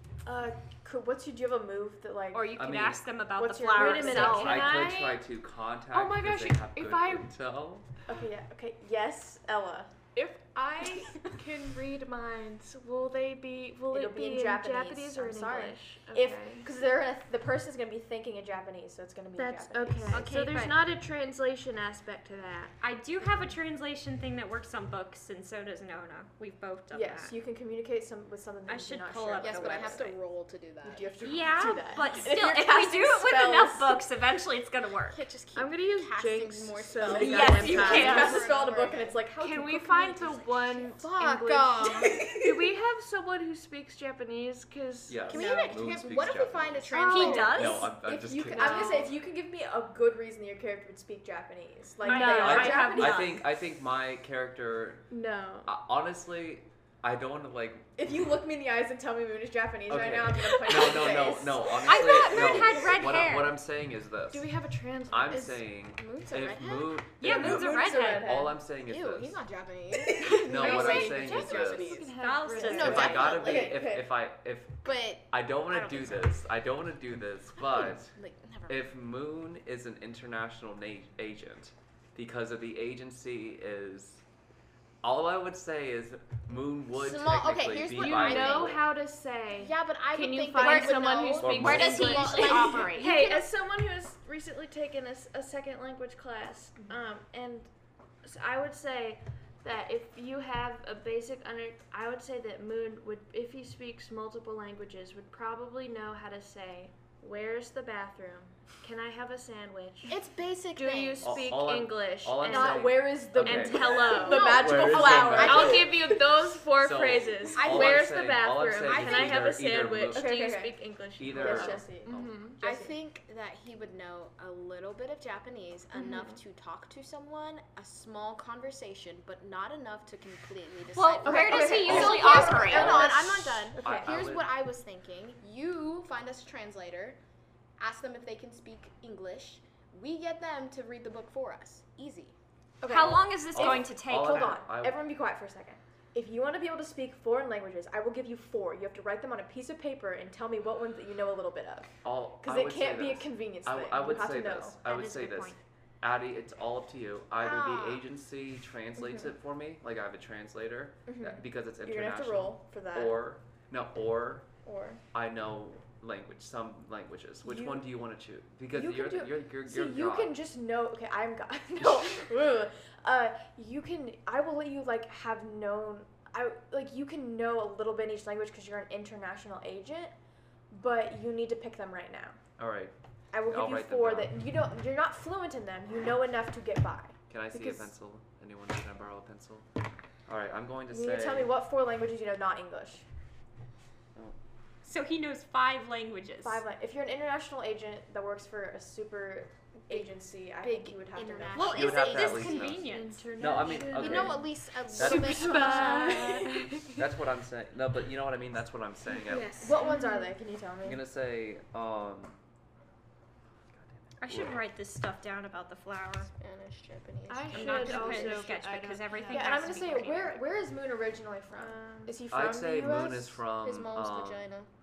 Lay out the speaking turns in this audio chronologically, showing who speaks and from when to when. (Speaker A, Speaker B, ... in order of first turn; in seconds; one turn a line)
Speaker A: 0.2-2.5
Speaker B: 2.3-4.8
Speaker C: 2.6-3.0
Speaker A: 3.4-4.9
Speaker D: 3.7-5.2
Speaker C: 4.0-7.9
Speaker D: 5.9-7.3
Speaker A: 8.1-9.9
Speaker D: 10.2-16.7
Speaker A: 13.9-20.3
Speaker D: 19.4-22.8
Speaker B: 20.1-20.8
Speaker B: 22.8-27.4
Speaker A: 26.9-30.1
Speaker B: 28.7-30.2
Speaker E: 29.4-31.1
Speaker A: 30.8-34.0
Speaker B: 31.2-35.2
Speaker E: 35.1-39.2
Speaker D: 35.5-38.5
Speaker B: 37.1-38.4
Speaker A: 37.1-41.0
Speaker D: 39.3-45.9
Speaker E: 41.0-42.7
Speaker C: 45.1-47.0
Speaker E: 45.3-47.8
Speaker D: 46.9-47.7
Speaker B: 47.0-47.9
Speaker A: 47.3-53.4
Speaker C: 47.5-49.0
Speaker D: 48.5-49.2
Speaker D: 52.0-53.1
Speaker B: 52.0-53.4
Speaker C: 52.4-55.1
Speaker D: 55.1-55.7
Speaker C: 55.6-57.9
Speaker A: 58.0-61.8
Speaker C: 59.9-64.5
Speaker B: 61.8-63.6
Speaker D: 64.3-65.6
Speaker C: 65.1-69.4
Speaker E: 65.7-67.0
Speaker B: 67.2-68.3
Speaker A: 67.2-68.6
Speaker E: 68.9-73.9
Speaker A: 70.1-71.7
Speaker C: 70.5-72.0
Speaker D: 70.6-73.3
Speaker B: 72.2-73.3
Speaker A: 72.8-74.1
Speaker C: 72.8-74.8
Speaker E: 74.8-76.4
Speaker C: 75.3-78.1
Speaker E: 77.6-78.8
Speaker C: 78.7-84.2
Speaker C: 85.0-88.9
Speaker E: 86.9-88.8
Speaker D: 87.9-97.7
Speaker E: 89.5-93.2
Speaker B: 90.6-93.4
Speaker A: 90.6-91.4
Speaker C: 91.4-92.0
Speaker A: 92.5-92.9
Speaker D: 98.2-110.2
Speaker E: 110.1-111.5
Speaker D: 110.8-122.8
Speaker C: 111.2-116.0
Speaker A: 112.4-116.1
Speaker E: 115.0-115.9
Speaker C: 116.8-120.3
Speaker E: 117.5-118.2
Speaker E: 118.8-119.6
Speaker A: 120.1-122.9
Speaker C: 121.2-121.9
Speaker E: 122.6-137.2
Speaker D: 126.0-126.4
Speaker B: 130.9-133.0
Speaker A: 131.2-134.1
Speaker C: 131.8-134.6
Speaker E: 137.8-142.3
Speaker A: 142.8-154.8
Speaker B: 142.8-144.6
Speaker C: 143.5-145.0
Speaker C: 152.0-164.5
Speaker B: 154.8-155.6
Speaker E: 157.4-158.0
Speaker A: 161.1-163.3
Speaker A: 164.6-165.0
Speaker C: 165.1-170.4
Speaker A: 167.4-167.9
Speaker A: 168.7-180.1
Speaker C: 171.8-172.2
Speaker A: 180.7-182.4
Speaker C: 182.6-182.9
Speaker A: 183.3-187.9
Speaker C: 183.4-184.4
Speaker C: 187.3-189.7
Speaker C: 190.3-191.5
Speaker A: 190.9-193.1
Speaker B: 194.8-196.6
Speaker A: 196.4-201.8
Speaker E: 199.9-202.7
Speaker B: 201.6-203.2
Speaker C: 201.7-205.7
Speaker D: 202.8-207.0
Speaker E: 203.8-206.5
Speaker A: 205.1-206.5
Speaker C: 206.9-209.6
Speaker E: 209.3-209.7
Speaker D: 209.3-210.4
Speaker A: 209.6-211.0
Speaker C: 210.8-212.4
Speaker C: 213.8-214.6
Speaker B: 214.2-216.3
Speaker E: 216.4-218.4
Speaker D: 217.3-219.8
Speaker B: 217.5-220.4
Speaker A: 219.3-223.4
Speaker D: 221.5-222.2
Speaker C: 222.3-224.5
Speaker E: 223.6-224.7